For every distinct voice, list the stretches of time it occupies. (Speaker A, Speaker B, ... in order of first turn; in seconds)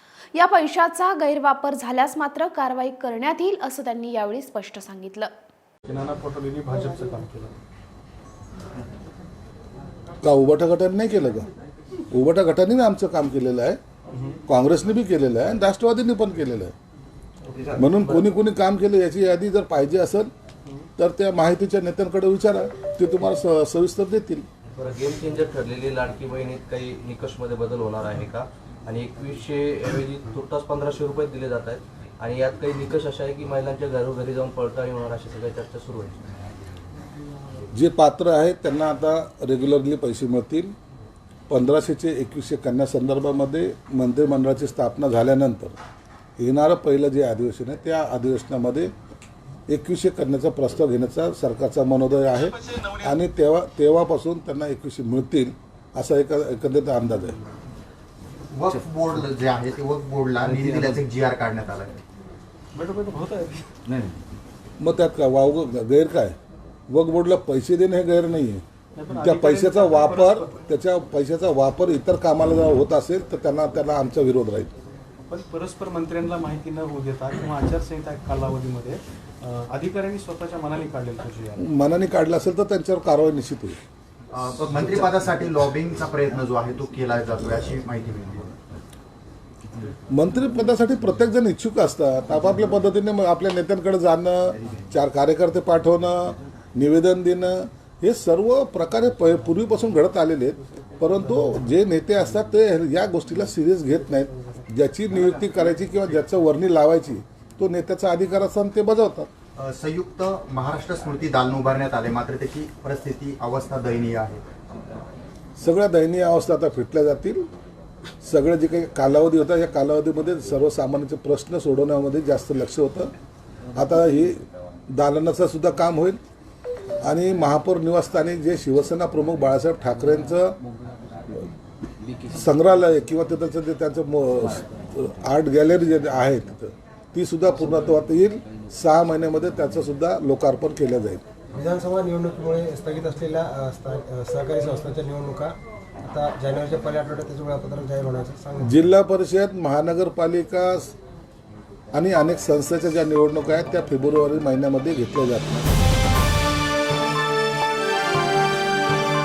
Speaker A: 0.3-5.3
Speaker B: 5.9-7.5, 14.1-14.4, 62.8-63.7, 69.0-70.5, 75.3-81.7
Speaker C: 10.2-11.5, 12.1-13.8, 14.5-16.7, 17.8-20.3, 21.0-24.5, 37.7-40.7, 41.5-45.8, 46.4-48.9, 49.7-57.4, 64.8-66.4, 66.9-68.6, 69.2-74.7, 81.6-83.8, 90.1-109.3, 115.6-117.5, 118.2-123.1, 123.8-126.2, 127.0-130.6, 132.3-141.2, 148.6-151.0, 151.9-155.7
Speaker D: 17.5-18.3, 24.8-36.3, 60.4-61.0
Speaker E: 58.5-62.0, 84.3-88.5, 109.6-114.4
Speaker F: 141.6-148.8